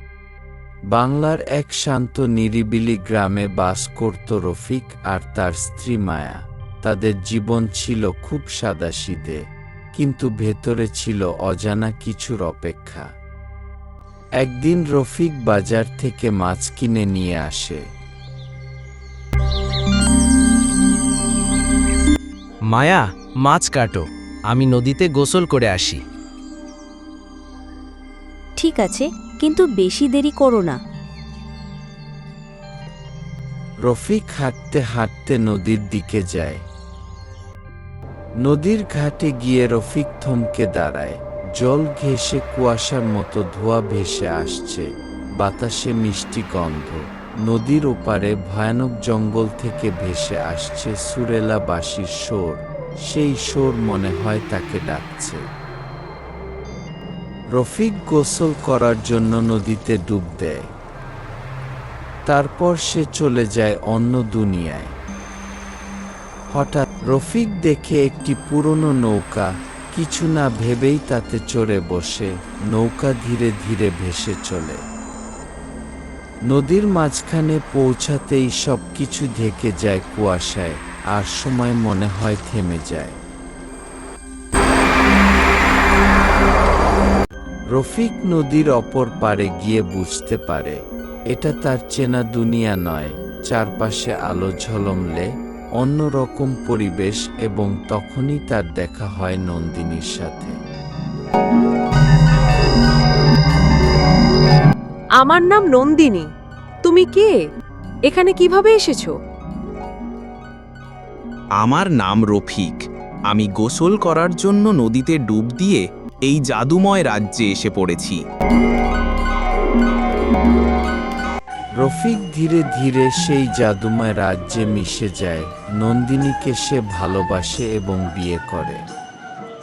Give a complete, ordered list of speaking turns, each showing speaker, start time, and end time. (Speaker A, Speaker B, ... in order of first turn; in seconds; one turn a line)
Speaker A: 0.9-9.4
Speaker A: 9.9-13.1
Speaker A: 14.4-17.8
Speaker B: 22.7-23.0
Speaker B: 23.7-23.9
Speaker B: 24.6-26.0
Speaker C: 28.6-30.8
Speaker A: 33.9-36.6
Speaker A: 38.4-44.9
Speaker A: 45.4-55.4
Speaker A: 57.5-60.6
Speaker A: 62.3-64.9
Speaker A: 66.5-74.8
Speaker A: 76.5-83.2
Speaker A: 87.7-90.8
Speaker A: 91.3-95.3
Speaker A: 95.8-100.5
Speaker D: 105.2-106.2
Speaker D: 106.9-107.3
Speaker D: 108.1-109.1
Speaker E: 111.6-118.2
Speaker A: 121.8-128.8